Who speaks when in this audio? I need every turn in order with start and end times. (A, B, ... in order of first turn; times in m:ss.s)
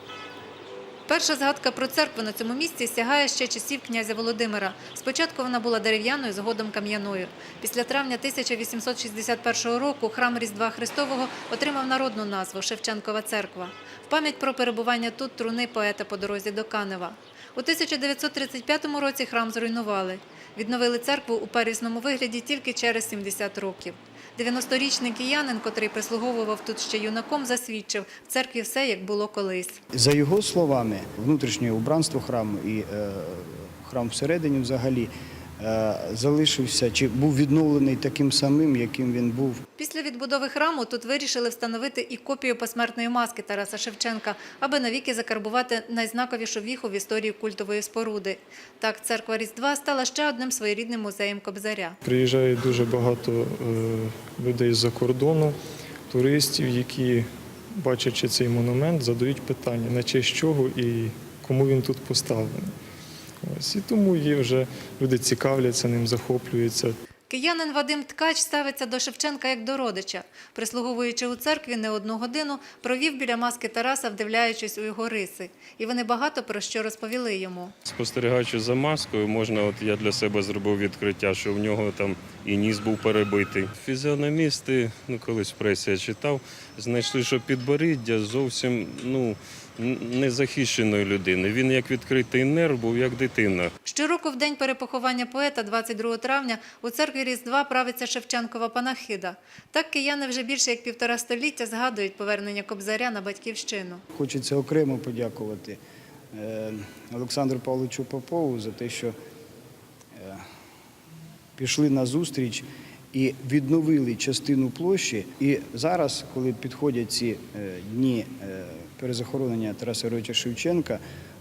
0:01.1-0:29.8 A
0:29.9-0:39.6 B
0:39.8-0:52.0 A
0:52.0-0:55.6 C
0:56.1-0:57.3 C
0:57.8-1:02.7 C
1:03.4-1:07.0 C
1:07.3-1:17.8 A
1:17.9-1:33.7 D
1:33.8-1:44.0 A
1:44.1-1:45.8 B
1:46.3-1:49.1 B
1:50.2-1:50.4 B
1:51.6-2:01.0 B